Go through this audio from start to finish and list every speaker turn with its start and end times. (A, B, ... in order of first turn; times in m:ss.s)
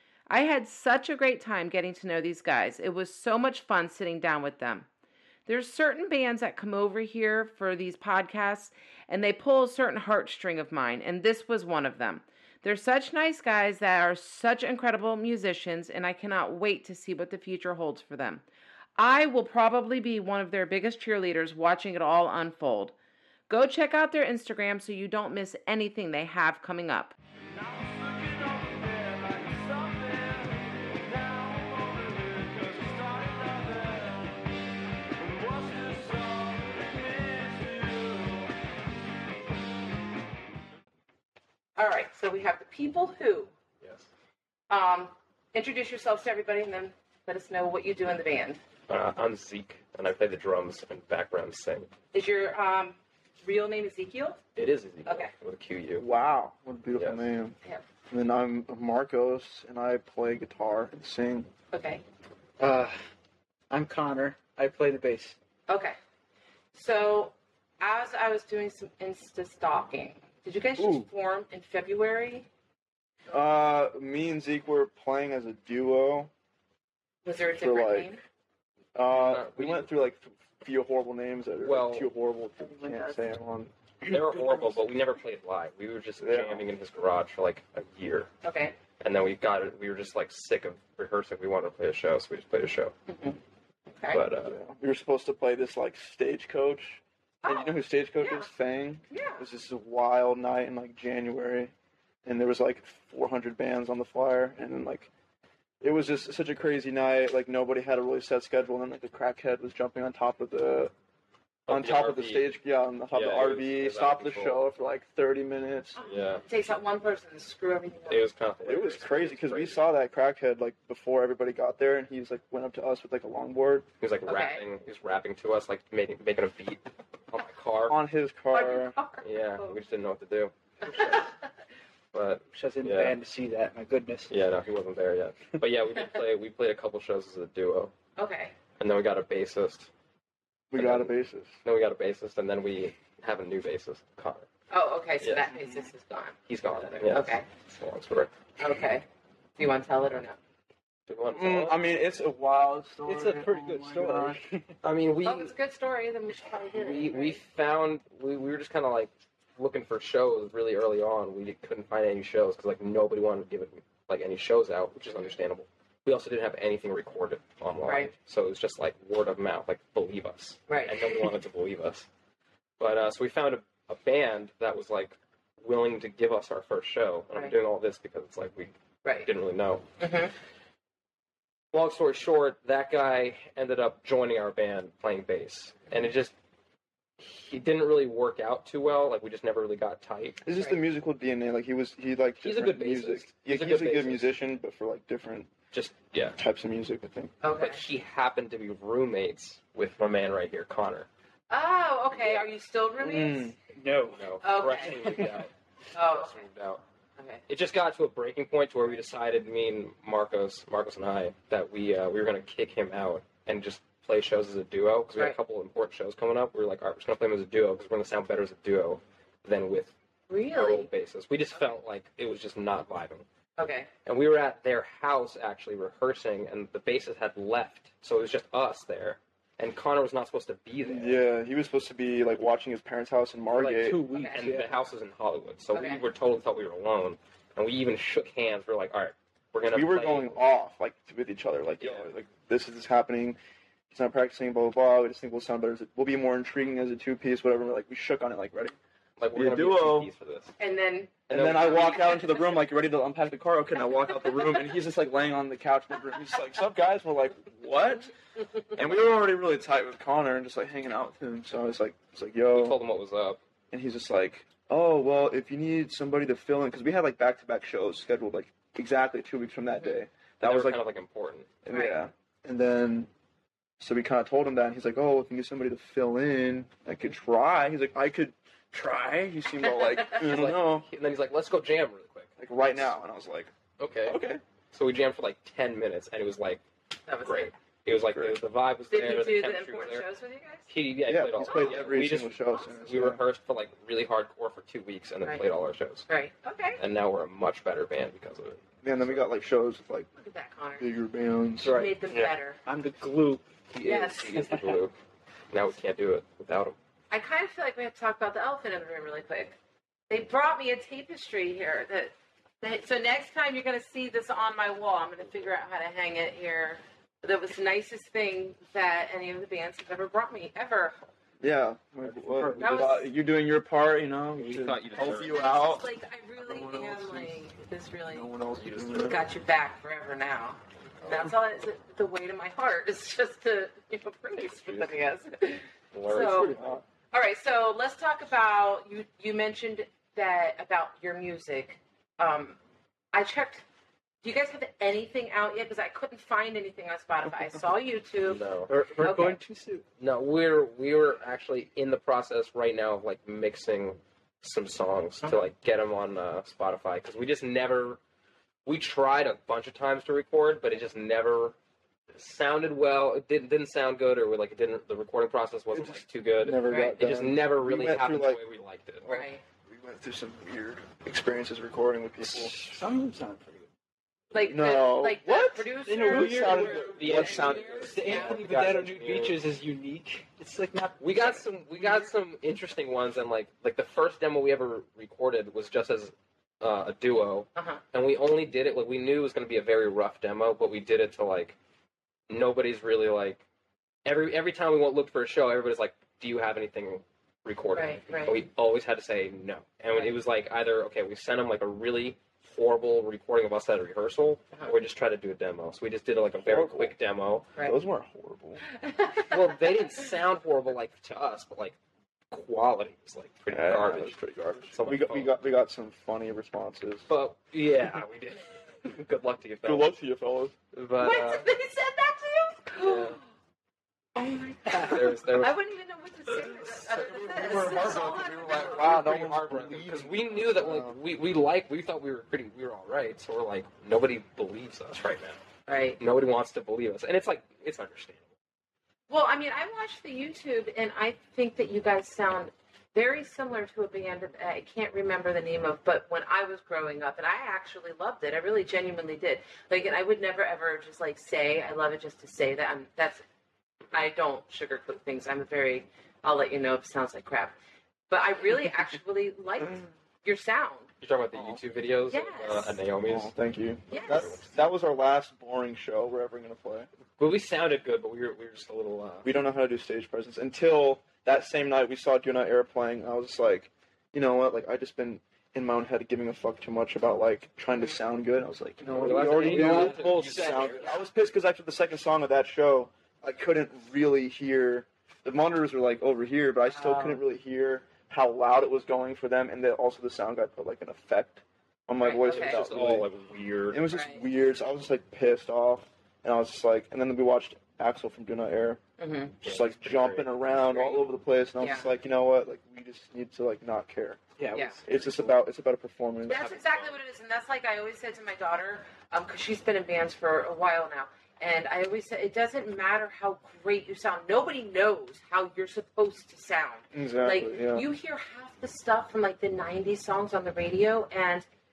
0:00.3-0:04.9 A
0:05.4-0:18.4 A
0:19.0-0:22.9 A
0:23.5-0:27.2 A
0:27.6-0:34.2 B
0:35.2-0:38.4 B
0:41.8-0:43.5 A
0:43.8-0:44.1 C
0:44.7-0:48.6 A
0:48.9-0:51.9 C
0:52.1-0:54.4 A
0:54.6-0:56.0 C
0:55.0-0:55.3 A
0:56.0-0:57.6 B
0:57.0-0:57.2 C
0:58.1-1:01.5 B
1:01.7-1:02.0 A
1:02.6-1:03.0 D
1:03.7-1:05.4 D
1:05.7-1:06.0 A
1:06.7-1:12.5 A
1:10.8-1:11.1 B
1:13.3-1:16.3 B
1:17.2-1:18.2 A
1:17.6-1:18.1 B
1:18.9-1:23.7 B
1:19.1-1:19.9 C
1:21.6-1:22.1 C
1:24.1-1:28.3 C
1:26.2-1:26.6 B
1:28.4-1:28.8 A
1:29.0-1:32.9 C
1:33.1-1:33.4 A
1:33.9-1:34.2 A
1:34.1-1:34.6 C
1:34.4-1:41.7 B
1:37.4-1:38.5 A
1:39.1-1:39.4 A
1:42.2-1:45.1 B
1:45.8-1:50.9 B
1:51.7-1:52.5 C
1:51.7-1:56.0 B
1:53.1-1:54.6 C
1:56.0-1:58.3 A
1:56.0-1:56.4 C
1:58.1-1:59.8 C
1:58.6-2:03.8 B
2:04.0-2:08.0 C
2:04.3-2:04.6 A
2:07.9-2:08.9 B
2:08.5-2:09.7 A
2:09.2-2:11.3 C
2:10.8-2:11.4 A
2:12.1-2:13.2 C
2:12.5-2:14.3 D
2:14.3-2:17.9 C
2:18.2-2:18.5 A
2:18.8-2:19.9 C
2:20.7-2:21.5 B
2:20.8-2:24.5 C
2:24.7-2:27.4 A
2:25.2-2:25.5 C
2:26.5-2:28.3 C
2:28.6-2:30.4 A
2:31.1-2:31.8 C
2:31.3-2:34.4 B
2:33.1-2:34.7 D
2:34.8-2:35.5 C
2:35.2-2:37.4 A
2:36.7-2:52.1 C
2:47.8-2:48.1 A
2:50.7-2:51.3 A
2:52.8-2:58.7 C
2:59.2-2:59.8 C
3:00.0-3:00.3 A
3:01.7-3:06.3 C
3:07.2-3:10.4 C
3:10.4-3:15.5 B
3:12.4-3:14.3 C
3:15.7-3:16.4 C
3:16.4-3:17.3 B
3:17.4-3:17.8 A
3:17.6-3:21.1 C
3:21.5-3:23.5 A
3:23.0-3:23.6 B
3:23.7-3:24.2 D
3:24.1-3:26.8 C
3:24.4-3:25.3 A
3:25.9-3:26.3 A
3:27.5-3:39.9 C
3:40.3-3:40.9 A
3:40.5-3:43.2 C
3:43.6-3:43.9 A
3:44.0-3:51.2 C
3:50.8-3:54.0 B
3:53.6-4:00.4 C
3:53.7-3:54.8 D
3:54.1-3:54.5 A
3:55.7-3:56.0 A
3:59.7-4:03.4 B
4:01.8-4:02.1 C
4:03.9-4:08.7 B
4:09.2-4:10.5 C
4:09.3-4:10.1 B
4:10.6-4:12.6 A
4:11.3-4:12.2 C
4:11.3-4:18.1 B
4:18.7-4:22.8 B
4:22.5-4:23.4 C
4:23.7-4:30.8 B
4:30.4-4:31.5 C
4:31.6-4:33.1 B
4:31.7-4:32.0 A
4:33.8-4:40.8 B
4:40.1-4:42.3 C
4:42.4-4:43.5 B
4:43.8-4:44.2 C
4:44.0-4:44.4 B
4:44.7-4:46.6 C
4:47.1-4:47.5 A
4:47.2-4:50.0 C
4:47.9-4:48.4 B
4:48.9-4:50.7 A
4:50.7-4:56.0 C
4:51.0-4:53.2 B
4:51.4-4:52.0 A
4:56.1-4:56.8 A
4:56.8-4:59.2 C
4:58.8-5:00.1 B
5:00.2-5:00.9 A
5:00.8-5:01.7 B
5:01.6-5:03.4 D
5:01.6-5:02.6 A
5:03.7-5:04.9 C
5:03.8-5:04.6 A
5:04.3-5:04.7 D
5:05.5-5:06.8 C
5:07.1-5:09.6 A
5:10.1-5:21.0 A
5:21.4-5:25.8 B
5:22.0-5:23.0 D
5:22.6-5:23.1 A
5:24.4-5:25.4 C
5:25.0-5:28.3 A
5:26.4-5:27.4 B
5:28.1-5:29.2 B
5:28.6-5:29.2 C
5:29.0-5:36.6 A
5:34.4-5:34.8 C
5:35.9-5:36.8 C
5:36.1-5:36.8 B
5:37.1-5:42.6 A
5:43.1-5:43.6 A
5:44.2-5:48.4 A
5:48.2-5:48.7 C
5:48.7-5:49.8 D
5:49.0-5:49.4 A
5:50.0-5:58.0 C
5:58.6-6:01.5 C
6:02.1-6:09.2 C
6:05.7-6:08.4 B
6:06.7-6:07.0 A
6:09.0-6:09.4 A
6:09.7-6:12.5 B
6:12.2-6:13.6 D
6:14.3-6:18.4 A
6:14.4-6:18.0 B
6:15.8-6:22.1 D
6:16.9-6:19.4 C
6:21.0-6:31.6 C
6:27.5-6:27.8 A
6:32.3-6:33.4 C
6:34.0-6:47.5 C
6:37.7-6:38.4 A
6:46.4-6:46.9 B
6:47.6-6:48.6 B
6:48.7-6:49.5 A
6:49.3-6:51.8 C
6:52.3-6:54.2 C
6:53.5-6:57.1 B
6:54.7-6:55.3 C
6:57.1-6:59.9 C
6:59.6-7:00.5 B
7:00.7-7:01.5 C
7:01.0-7:03.2 A
7:02.8-7:03.2 C
7:04.1-7:09.0 A
7:04.7-7:05.6 C
7:06.4-7:15.4 C
7:06.8-7:11.0 B
7:15.7-7:16.0 A
7:16.0-7:18.2 C
7:19.1-7:33.2 A
7:33.9-7:37.6 A
7:38.1-7:40.9 A
7:41.0-7:43.3 C
7:42.1-7:42.8 A
7:43.0-7:46.9 B
7:43.9-7:44.4 A
7:43.9-7:44.4 C
7:47.2-7:49.3 C
7:49.2-8:13.1 B
7:58.8-8:00.8 D
7:58.9-8:01.0 C
8:06.7-8:07.2 A
8:12.0-8:12.6 A
8:12.2-8:13.8 C
8:13.7-8:18.8 B
8:13.9-8:14.2 A
8:19.0-8:19.3 A
8:19.4-8:24.2 B
8:19.4-8:21.0 C
8:21.6-8:21.8 A
8:24.4-8:25.1 D
8:24.8-8:26.5 B
8:26.2-8:41.5 A
8:26.3-8:27.0 C
8:36.9-8:37.9 B